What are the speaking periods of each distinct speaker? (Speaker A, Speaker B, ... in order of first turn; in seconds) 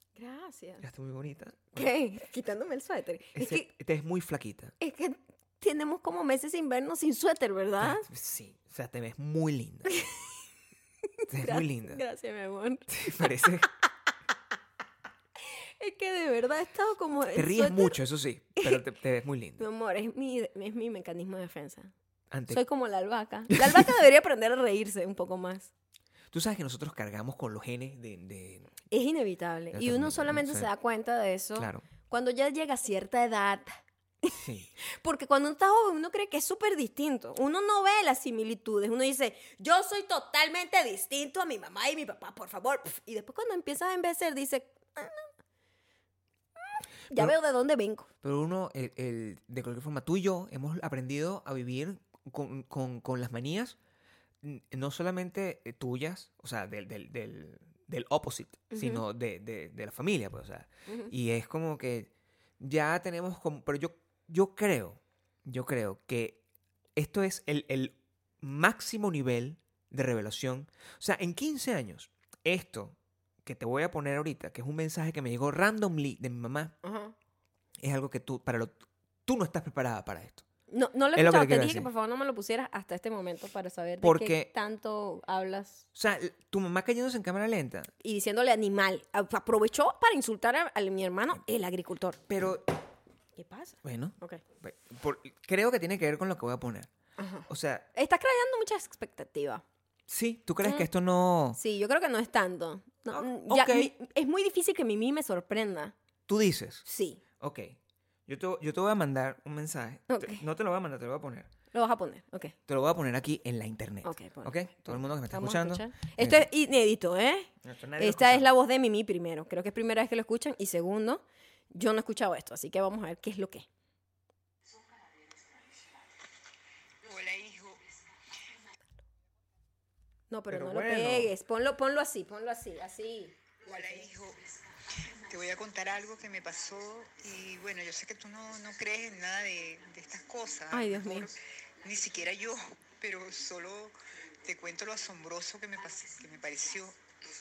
Speaker A: 0.2-0.8, 1.7-3.7, 4.8-8.1, 9.9-10.2, 11.2-13.4, 15.4-18.0, 19.6-21.9, 22.5-25.7, 28.9-45.3, 47.1-48.1, 58.7-59.0, 60.9-61.1, 76.8-77.1, 80.7-85.9, 88.0-92.2, 93.4-94.4, 97.2-99.6, 100.6-100.9, 101.5-105.9, 106.8-107.2, 110.1-110.4, 111.7-112.6, 114.0-123.7, 130.3-134.1, 140.7-141.3
Speaker B: 0.8-1.9, 3.4-4.7, 7.8-9.9, 11.3-12.0, 12.9-13.7, 17.3-19.6, 22.3-22.6, 23.5-23.9, 26.3-28.7, 29.7-30.7, 31.6-31.9, 34.4-34.7, 48.2-53.8, 54.4-66.4, 67.0-76.7, 77.8-80.5, 81.1-81.9, 84.0-84.5, 86.0-87.9, 92.3-92.6, 93.8-96.9, 97.5-97.9, 100.1-101.6, 103.1-103.9, 106.3-106.8, 107.4-111.5, 112.7-116.5, 117.6-118.5, 130.5-131.3
Speaker C: 127.0-127.9, 133.6-147.0